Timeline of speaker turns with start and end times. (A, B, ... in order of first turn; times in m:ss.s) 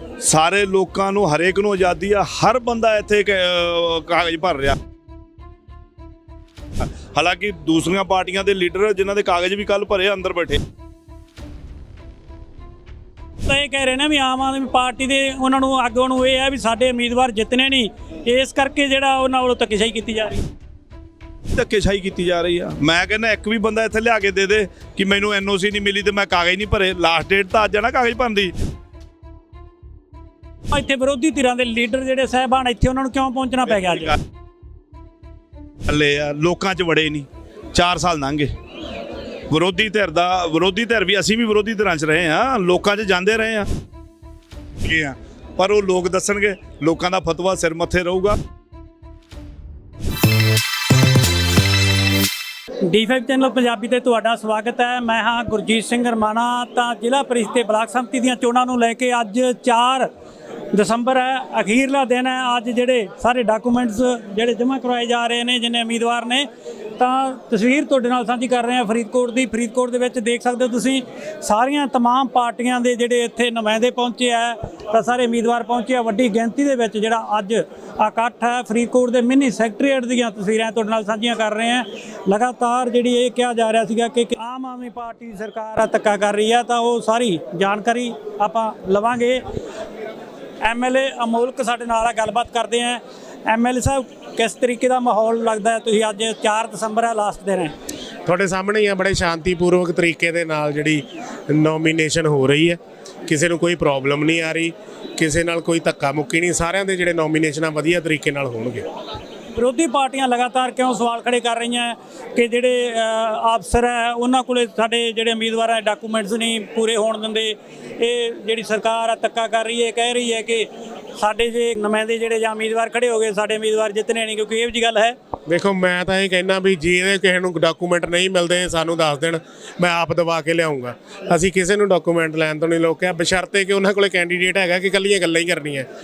0:00.2-0:04.8 A
0:06.8-0:10.6 A
0:13.5-0:20.5 B
0:21.6-0:28.5 A
0:30.7-0:34.1 B
0:35.9-0:38.5 A
0:39.5-0:43.7 A
0:44.8-0:48.4 A
0:52.8-1:00.1 B
1:00.7-1:29.4 B
1:30.6-1:37.8 B
1:38.3-1:48.8 C
1:49.5-2:05.2 B
2:05.5-2:15.9 C